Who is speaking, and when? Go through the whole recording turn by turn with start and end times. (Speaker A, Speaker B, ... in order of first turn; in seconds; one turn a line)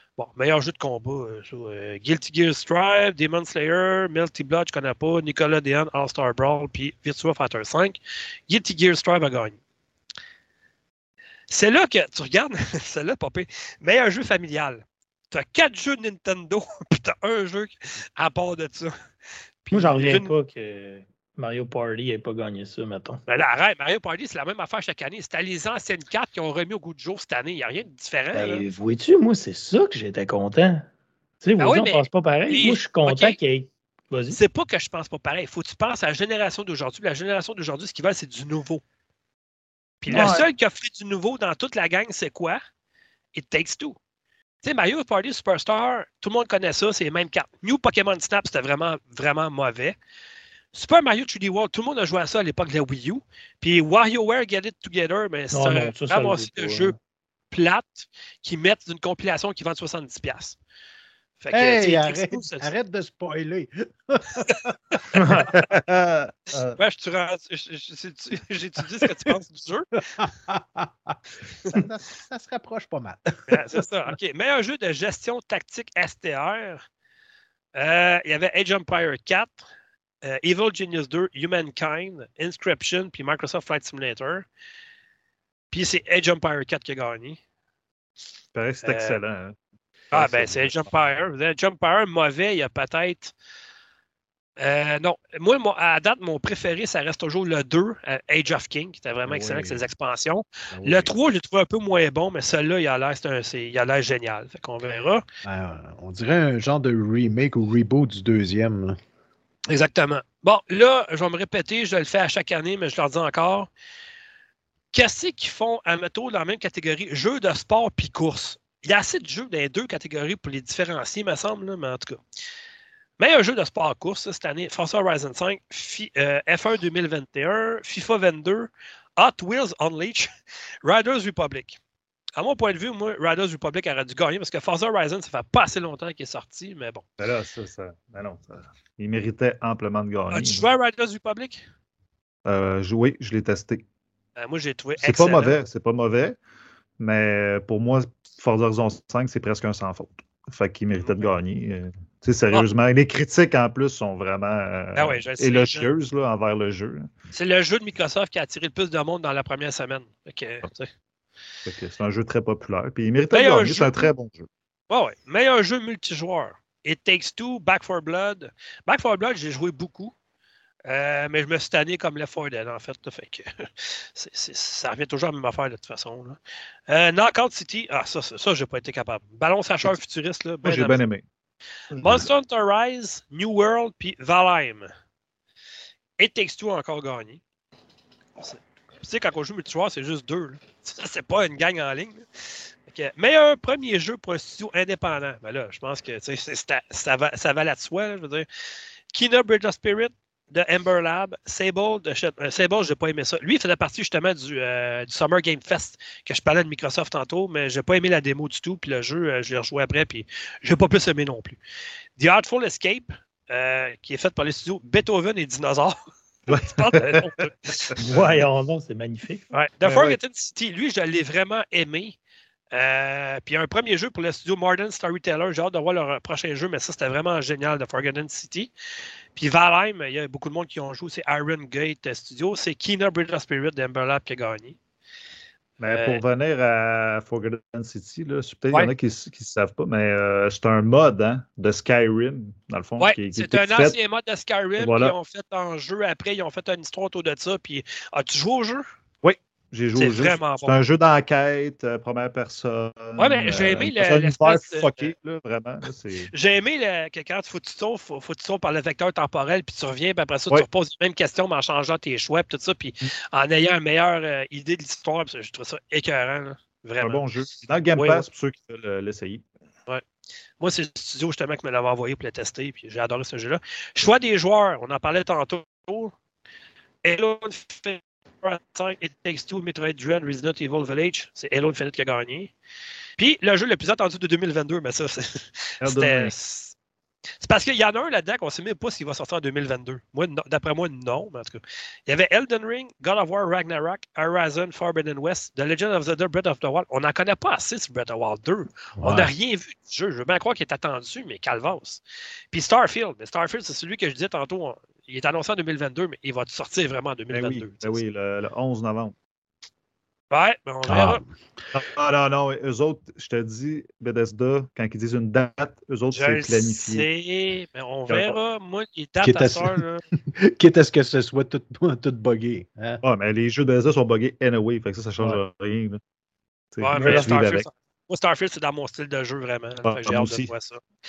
Speaker A: 0.2-9.6
Speaker A: 11.5-18.9
Speaker A: 19.6-20.3
Speaker B: 19.7-23.2
Speaker A: 23.3-28.6
Speaker B: 28.3-30.9
Speaker B: 31.4-34.4
Speaker A: 31.6-33.4
Speaker A: 34.3-38.8
Speaker A: 40.0-42.6
Speaker C: 40.1-40.5
Speaker A: 43.3-44.0
Speaker A: 44.6-50.0
Speaker A: 50.7-57.0
Speaker B: 55.5-56.9
Speaker A: 57.5-60.6
Speaker A: 61.4-62.7
Speaker D: 61.5-65.2
Speaker C: 65.1-66.8
Speaker A: 66.8-69.9
Speaker D: 70.2-73.7
Speaker A: 73.5-76.8
Speaker A: 77.7-79.6
Speaker A: 80.2-84.5
Speaker A: 85.7-87.4
Speaker C: 88.5-89.6
Speaker A: 88.8-89.2
Speaker C: 90.1-90.7
Speaker A: 90.1-93.3
Speaker A: 94.6-105.2
Speaker D: 99.3-99.8
Speaker D: 100.7-101.1
Speaker D: 105.4-109.0
Speaker A: 109.7-113.7
Speaker A: 114.9-122.2
Speaker A: 123.2-130.3
Speaker A: 130.8-131.8
Speaker A: 132.4-137.0
Speaker C: 137.2-140.7
Speaker A: 140.3-141.6
Speaker C: 142.4-143.8
Speaker A: 144.4-145.6
Speaker C: 145.0-146.4
Speaker C: 147.0-157.1
Speaker A: 154.9-155.9
Speaker A: 157.3-160.9
Speaker C: 161.6-164.5
Speaker A: 163.3-164.1
Speaker A: 164.9-170.1
Speaker A: 170.9-176.4
Speaker A: 176.9-181.1
Speaker C: 180.6-181.2
Speaker C: 181.9-182.3
Speaker A: 182.0-184.9
Speaker A: 186.2-187.4
Speaker A: 188.4-192.2
Speaker A: 192.9-198.4
Speaker A: 199.1-211.6
Speaker A: 212.2-215.9
Speaker A: 216.5-218.0
Speaker C: 216.5-218.4
Speaker B: 218.0-219.4
Speaker A: 219.5-222.2
Speaker C: 219.8-220.2
Speaker A: 222.7-228.7
Speaker A: 229.3-234.8
Speaker C: 235.8-243.9
Speaker A: 235.9-236.2
Speaker A: 243.0-248.8
Speaker C: 244.8-245.2
Speaker C: 249.2-256.3
Speaker A: 249.9-250.8
Speaker A: 253.2-255.1
Speaker A: 256.3-267.2
Speaker C: 267.0-269.4
Speaker A: 267.9-268.2
Speaker A: 270.6-276.1
Speaker A: 277.0-282.5
Speaker A: 283.2-286.8
Speaker C: 285.8-286.3
Speaker A: 287.4-302.0
Speaker D: 299.0-299.3
Speaker A: 302.5-308.0
Speaker C: 307.3-309.1
Speaker A: 310.3-311.2
Speaker D: 310.9-311.2
Speaker C: 311.7-317.1
Speaker A: 316.1-320.1
Speaker C: 318.1-318.4
Speaker D: 319.2-319.8
Speaker D: 320.4-323.0
Speaker C: 323.0-326.0
Speaker C: 326.7-327.7
Speaker A: 326.8-330.8
Speaker B: 326.9-327.4
Speaker C: 329.9-330.5